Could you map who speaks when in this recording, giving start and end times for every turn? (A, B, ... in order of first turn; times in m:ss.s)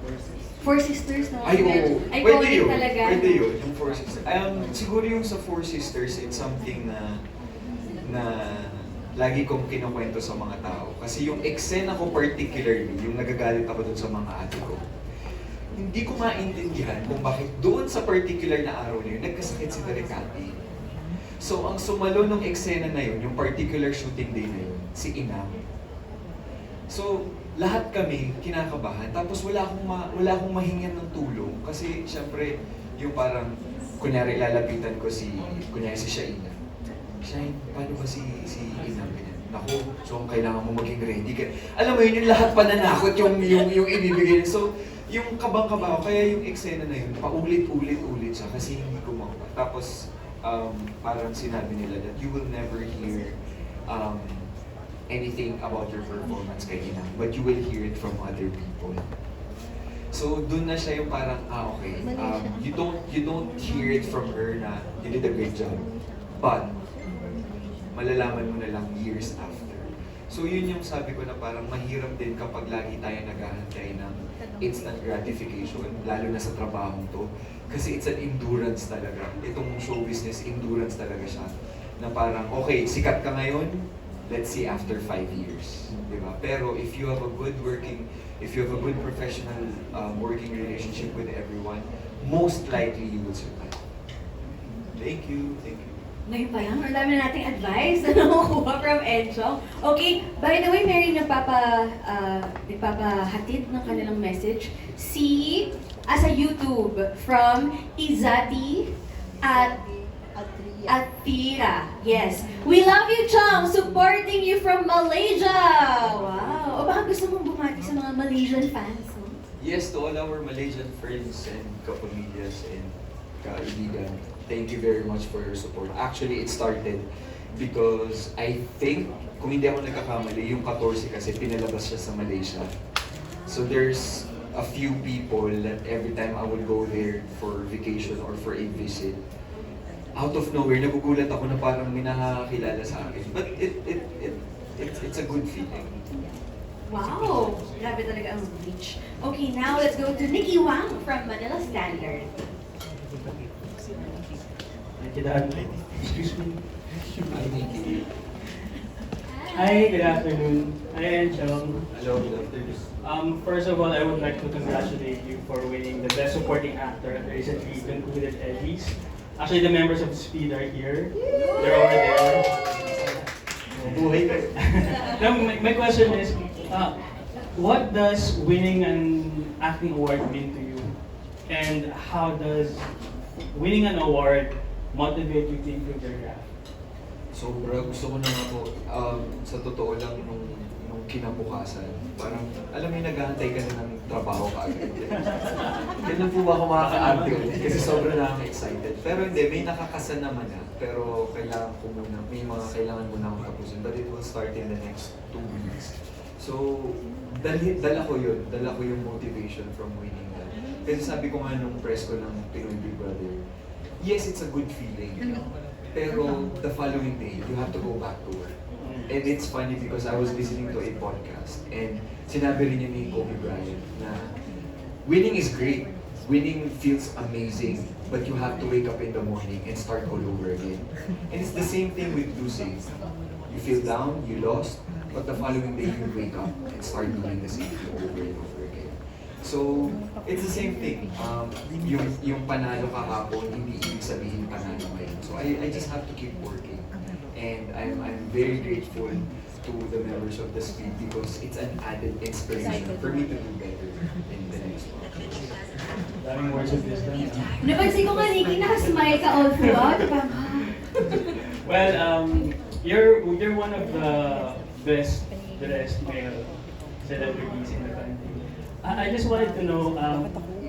0:00.6-0:03.4 A
0:01.4-0:07.2 B
0:08.0-0:14.8 B
0:15.8-0:20.5 B
0:21.4-0:25.6 B
0:26.9-0:36.5 B
0:37.2-0:53.4 B
0:53.9-0:54.5 B
0:55.1-0:59.0 B
1:00.1-1:06.7 B
1:07.9-1:33.8 B
1:34.9-1:36.0 B
1:36.2-1:48.9 A
1:49.4-1:49.7 A
1:50.8-1:59.4 A
1:59.6-2:12.7 B
2:13.4-2:19.2 B
2:20.2-2:25.9 B
2:26.9-2:32.3 A
2:35.0-2:36.6 C
2:37.3-2:38.1 B
2:39.5-2:41.8 C
2:41.9-2:42.9 B
2:43.0-2:52.4 C
2:51.4-2:52.1 A
2:53.8-2:54.5 B
2:54.5-2:57.0 C
2:57.5-3:02.9 C
3:03.5-3:06.5 C
3:07.3-3:33.4 B
3:16.8-3:18.1 C
3:34.0-3:44.3 B
3:38.8-3:39.1 C
3:45.0-3:52.9 B
3:53.4-4:15.4 B
4:16.2-4:17.9 C
4:17.6-4:21.1 A
4:21.6-4:30.4 C